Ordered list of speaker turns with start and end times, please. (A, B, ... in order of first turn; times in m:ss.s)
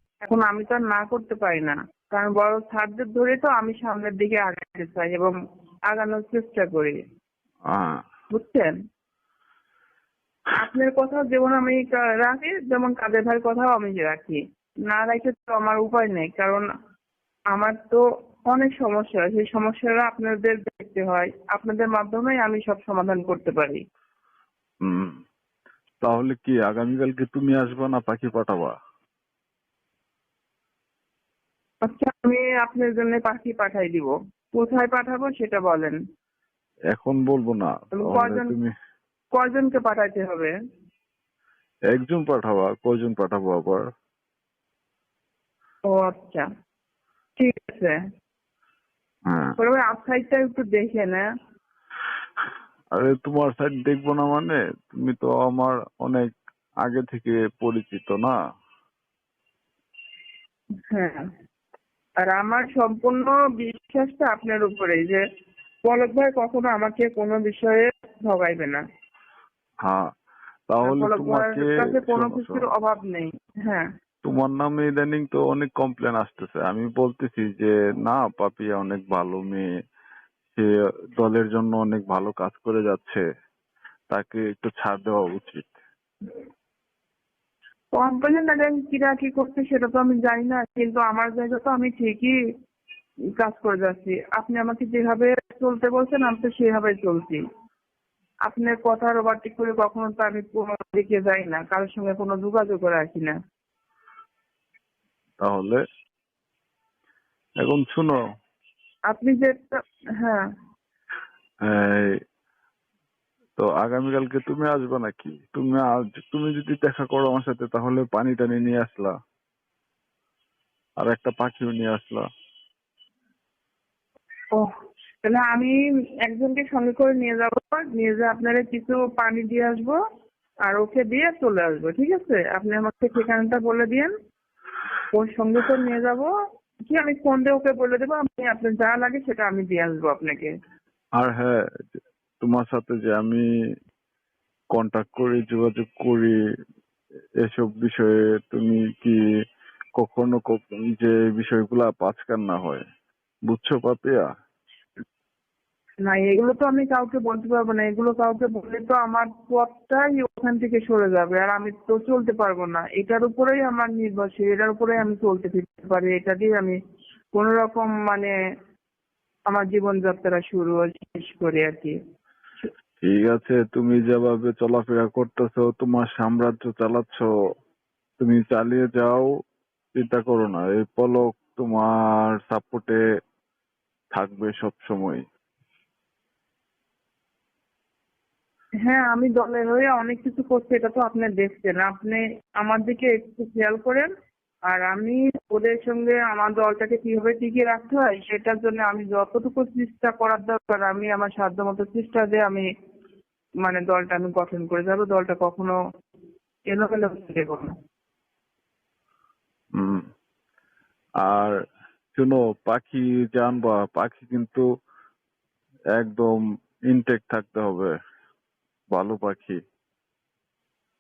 0:00.2-0:05.3 A
0:05.9-0:07.0 A
0:07.7-0:08.0 B
0:08.3-0:08.7 A
0:10.5-0:16.7 A
0:17.5-0:23.8 A
0:24.8-0:25.2 B
0:26.0-0:28.8 B
0:31.8-0:36.0 A
0:36.9-0:38.7 B
0:38.0-0:38.5 A
0:39.4-0:40.5 A
0:41.9-0:43.9 B
0:45.9-0:46.5 A
0:47.4-0:48.0 A
0:49.3-0:49.6 B
0:49.6-0:51.2 A
0:53.0-0:56.3 B
0:56.8-0:58.4 B
1:00.9-1:01.2 A
1:02.3-1:05.2 A
1:05.9-1:08.8 A
1:09.8-1:10.1 B
1:10.7-1:12.6 B
1:10.8-1:13.9 A
1:14.2-1:19.7 B
1:20.6-1:23.2 B
1:24.1-1:25.8 B
1:28.0-1:32.4 A
1:33.4-1:37.4 A
1:38.5-1:43.4 A
1:45.4-1:45.8 B
1:47.6-1:48.2 B
1:49.1-1:50.4 A
1:51.6-1:52.2 B
1:53.6-1:59.2 B
2:01.0-2:02.2 B
2:05.2-2:10.0 A
2:10.7-2:14.1 A
2:15.1-2:16.3 A
2:16.9-2:20.5 A
2:21.2-2:21.6 B
2:22.4-2:23.5 B
2:24.7-2:26.4 B
2:27.4-2:29.2 B
2:30.0-2:32.8 B
2:33.5-2:34.3 B
2:36.0-2:46.8 A
2:47.4-2:48.3 A
2:49.5-2:52.0 A
2:53.0-2:57.3 B
2:58.2-2:59.3 B
3:00.0-3:03.0 B
3:04.1-3:05.2 B
3:08.8-3:14.1 A
3:14.7-3:22.7 A
3:23.6-3:25.8 A
3:26.7-3:27.7 A
3:29.8-3:30.0 B
3:31.2-3:31.6 B
3:32.2-3:34.6 B
3:36.0-3:37.9 B
3:38.9-3:39.6 B